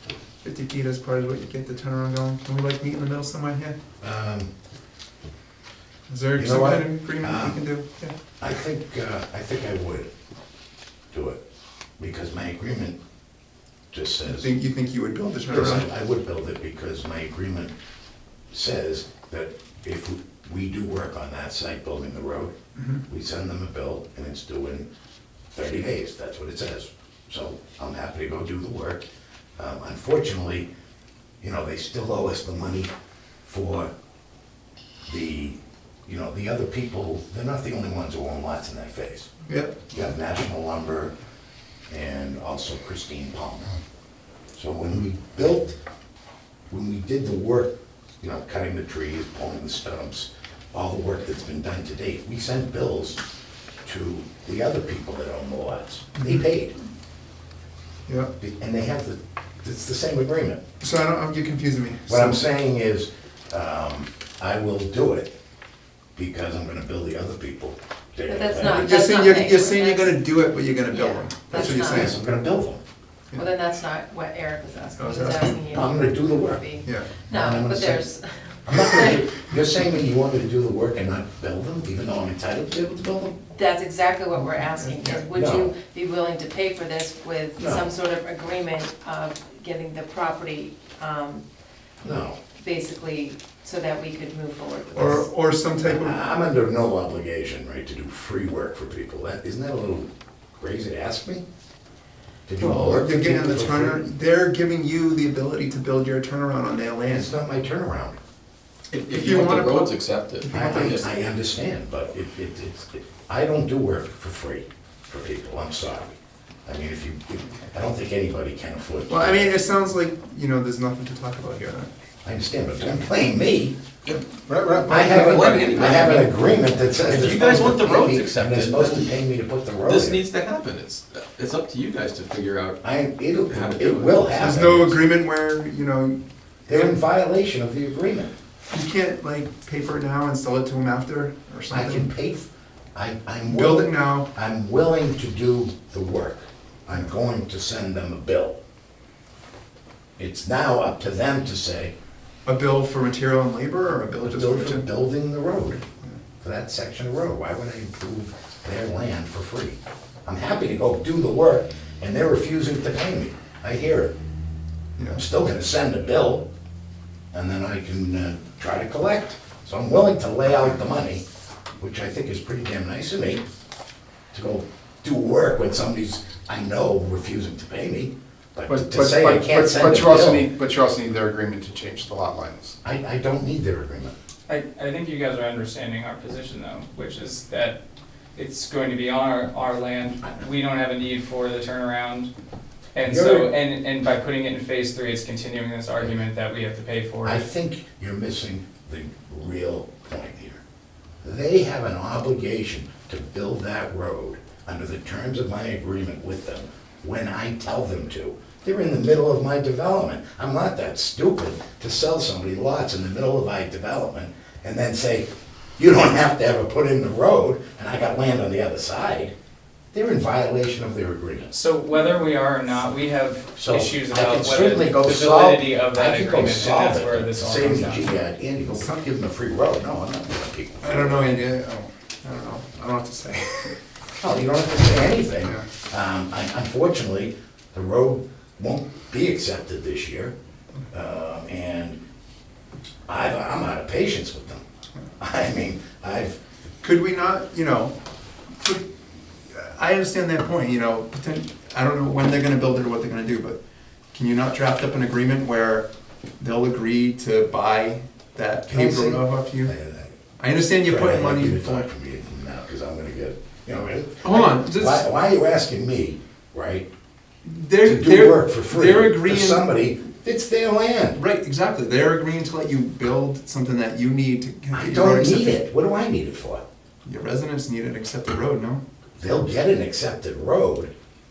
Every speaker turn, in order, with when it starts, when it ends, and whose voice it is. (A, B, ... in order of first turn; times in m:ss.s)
0:00.4-0:03.8 A
0:04.0-0:04.5 B
0:06.1-0:08.2 A
0:06.4-0:07.6 B
0:08.4-0:10.1 B
0:11.1-0:11.4 B
0:12.0-0:13.0 B
0:13.9-0:14.5 B
0:14.3-0:15.9 A
0:15.5-0:17.7 B
0:18.5-0:22.5 B
0:23.1-0:24.9 B
0:25.6-0:29.1 B
0:29.6-0:30.7 B
0:31.4-0:32.9 B
0:33.4-0:33.9 B
0:35.1-0:39.3 B
0:39.5-0:39.8 A
0:39.9-0:41.1 B
0:41.9-0:43.7 B
0:44.6-0:45.8 B
0:46.7-0:53.2 B
0:53.8-0:56.7 B
0:58.1-0:58.3 A
0:58.4-1:00.6 B
1:00.8-1:02.4 A
1:02.1-1:05.3 B
1:06.2-1:08.9 B
1:08.3-1:10.3 C
1:08.6-1:12.2 A
1:10.9-1:12.1 C
1:11.6-1:12.8 B
1:13.4-1:19.2 C
1:15.0-1:16.0 A
1:15.7-1:16.6 B
1:16.8-1:17.1 A
1:17.3-1:18.1 B
1:18.7-1:23.4 B
1:23.5-1:31.4 C
1:24.4-1:25.2 A
1:25.3-1:25.7 B
1:27.6-1:27.9 B
1:32.0-1:32.4 B
1:32.6-1:35.3 C
1:35.0-1:36.2 A
1:35.8-1:41.4 B
1:42.5-1:44.0 B
1:42.6-1:47.3 A
1:47.1-1:48.2 B
1:48.9-1:51.1 D
1:49.0-1:51.1 A
1:50.5-1:59.5 B
1:59.1-2:01.9 A
2:02.2-2:03.8 B
2:04.6-2:05.9 E
2:04.9-2:10.2 B
2:04.9-2:05.3 A
2:05.3-2:06.4 D
2:07.0-2:09.2 D
2:09.8-2:12.8 D
2:12.8-2:15.1 B
2:13.5-2:14.6 D
2:14.3-2:17.0 A
2:16.7-2:18.3 B
2:18.7-2:22.1 A
2:21.7-2:28.6 B
2:23.5-2:24.3 A
2:30.2-2:31.9 B
2:32.5-2:34.9 A
2:34.2-2:35.8 B
2:36.4-2:44.1 B
2:45.0-2:45.2 A
2:45.1-2:46.5 B
2:47.3-2:51.2 B
2:51.8-2:53.4 B
2:54.3-3:00.5 B
2:59.0-3:02.7 E
3:02.8-3:04.1 B
3:04.5-3:07.8 F
3:08.4-3:12.3 F
3:13.0-3:17.4 F
3:13.0-3:13.5 B
3:17.2-3:20.6 B
3:21.2-3:39.3 B
3:39.9-3:41.6 B
3:41.5-3:48.1 F
3:43.6-3:51.3 B
3:50.8-3:53.8 A
3:54.2-4:00.3 B
4:00.9-4:02.0 B
4:03.1-4:04.6 B
4:05.2-4:06.4 B
4:06.8-4:08.0 A
4:08.6-4:08.9 A
4:09.5-4:13.6 A
4:14.1-4:15.9 A
4:16.4-4:19.7 A
4:18.7-4:20.1 B
4:20.4-4:21.9 A
4:20.8-4:26.9 B
4:24.2-4:25.1 A
4:27.4-4:29.6 A
4:27.8-4:31.2 B
4:31.2-4:35.6 A
4:34.7-4:36.6 B
4:37.0-4:38.8 A
4:39.2-4:40.9 B